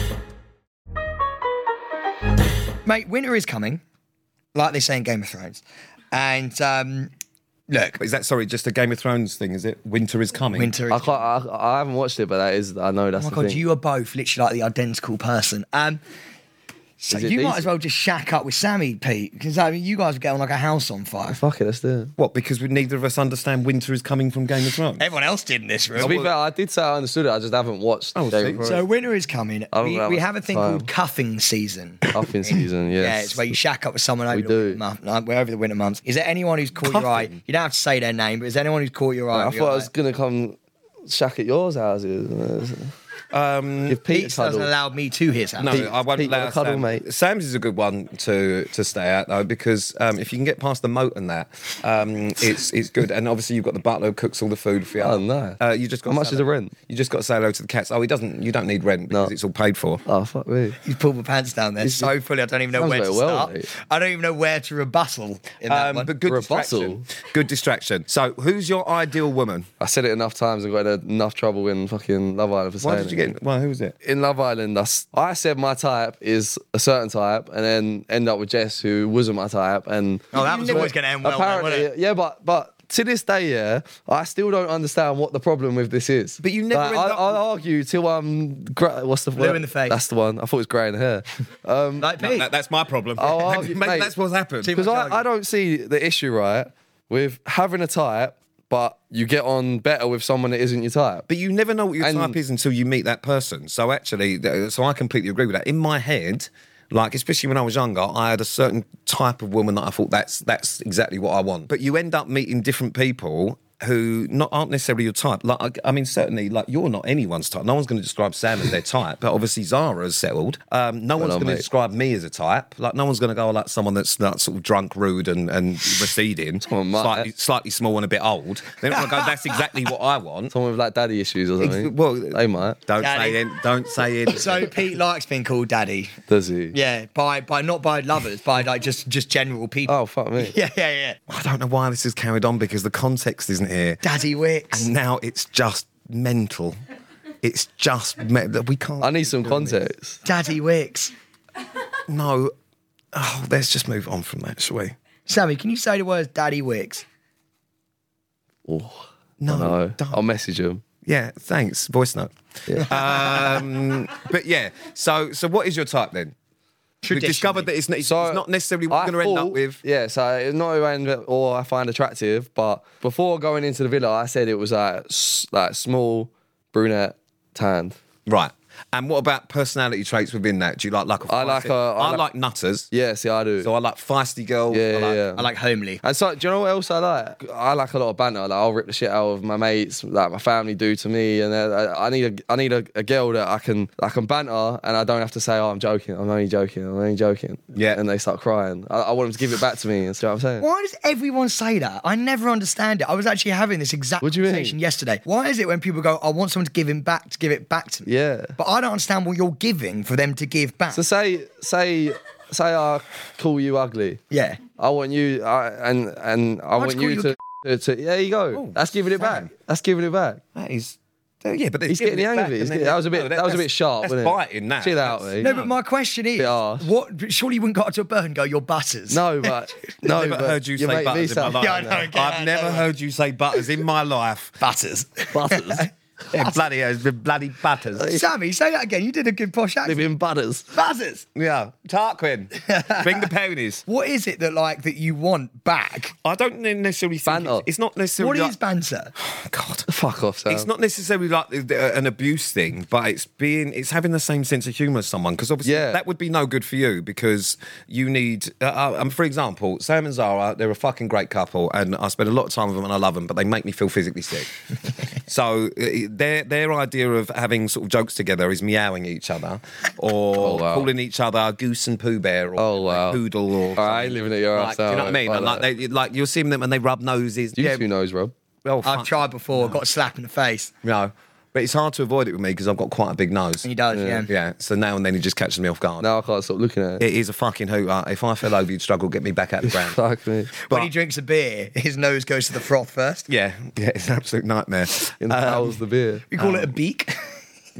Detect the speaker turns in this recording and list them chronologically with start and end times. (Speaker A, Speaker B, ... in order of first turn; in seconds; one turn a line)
Speaker A: 2.9-3.8
Speaker A: 4.5-7.1
Speaker A: 7.7-8.0
Speaker B: 8.0-10.7
Speaker A: 10.5-11.2
Speaker C: 10.9-13.6
Speaker A: 13.2-16.0
Speaker A: 17.0-21.4
Speaker C: 17.1-17.7
Speaker C: 21.3-22.1
Speaker B: 22.2-25.1
Speaker A: 25.0-26.2
Speaker B: 25.9-26.3
Speaker C: 26.0-28.8
Speaker B: 28.1-28.8
Speaker A: 28.6-39.9
Speaker C: 29.7-30.9
Speaker C: 32.1-33.5
Speaker C: 34.3-34.8
Speaker B: 36.8-37.3
Speaker C: 39.3-42.9
Speaker B: 43.3-44.0
Speaker C: 43.9-44.7
Speaker A: 44.1-45.9
Speaker B: 45.6-60.0
Speaker C: 45.7-47.0
Speaker C: 55.0-56.7
Speaker C: 60.0-60.8
Speaker A: 60.8-66.1
Speaker C: 61.8-62.1
Speaker C: 62.8-63.7
Speaker B: 65.7-69.7
Speaker C: 66.2-67.0
Speaker C: 69.8-73.3
Speaker B: 72.8-73.9
Speaker C: 74.0-92.1
Speaker A: 80.3-81.9
Speaker B: 86.4-87.4
Speaker A: 89.4-90.0
Speaker A: 92.0-92.5
Speaker B: 92.2-94.8
Speaker C: 93.2-94.1
Speaker A: 94.6-95.2
Speaker C: 94.7-101.2
Speaker B: 101.3-130.5
Speaker C: 102.0-102.4
Speaker C: 121.2-121.6
Speaker C: 126.6-127.3
Speaker C: 130.5-132.8
Speaker B: 131.6-134.8
Speaker A: 133.0-133.4
Speaker A: 134.3-136.1
Speaker C: 136.3-136.7
Speaker A: 136.7-141.2
Speaker C: 139.8-140.5
Speaker B: 141.3-144.0
Speaker A: 144.0-144.9
Speaker B: 144.7-146.8
Speaker B: 147.4-149.8
Speaker C: 149.0-150.2
Speaker A: 150.2-151.1
Speaker B: 152.1-152.5
Speaker B: 153.1-154.9
Speaker A: 155.3-157.0
Speaker C: 158.7-160.8
Speaker B: 159.4-160.2
Speaker B: 161.0-166.3
Speaker A: 167.0-167.7
Speaker B: 167.1-169.8
Speaker C: 168.0-178.0
Speaker B: 178.2-182.9
Speaker C: 181.3-182.2
Speaker C: 182.9-183.7
Speaker B: 183.6-185.2
Speaker C: 184.7-185.4
Speaker A: 185.3-186.0
Speaker C: 186.0-200.6
Speaker B: 197.7-198.0
Speaker A: 200.6-208.1
Speaker C: 204.2-204.8
Speaker C: 208.1-208.5
Speaker A: 208.6-211.0
Speaker C: 210.9-214.2
Speaker A: 214.3-214.6
Speaker C: 214.8-220.4
Speaker A: 216.8-217.3
Speaker B: 218.5-219.5
Speaker B: 220.5-225.7
Speaker C: 221.9-225.5
Speaker A: 225.4-229.5
Speaker C: 226.4-226.9
Speaker C: 229.1-231.9
Speaker B: 230.0-234.6
Speaker A: 231.6-232.9
Speaker A: 234.6-236.6
Speaker C: 235.3-235.9
Speaker B: 236.3-238.1
Speaker C: 237.9-238.3
Speaker A: 238.1-240.1
Speaker C: 239.8-240.7
Speaker A: 240.7-241.2
Speaker B: 241.3-243.8
Speaker A: 242.6-243.3
Speaker A: 243.9-246.1
Speaker B: 246.2-248.5
Speaker C: 247.2-247.7
Speaker A: 248.2-249.1
Speaker B: 249.2-249.9
Speaker C: 249.9-250.7
Speaker B: 250.5-264.5
Speaker C: 255.6-256.0
Speaker B: 265.2-277.8
Speaker C: 270.4-270.9
Speaker C: 272.6-273.2
Speaker C: 273.8-275.6
Speaker C: 277.6-278.3
Speaker B: 278.6-279.7
Speaker A: 278.8-280.7
Speaker B: 280.8-283.7
Speaker A: 283.6-284.3
Speaker C: 283.9-284.2
Speaker B: 284.2-286.1
Speaker C: 286.0-287.0
Speaker B: 287.0-290.0
Speaker C: 289.6-290.5
Speaker A: 290.6-293.3
Speaker B: 293.3-295.8
Speaker C: 295.2-296.2
Speaker A: 296.3-297.3
Speaker B: 296.4-296.7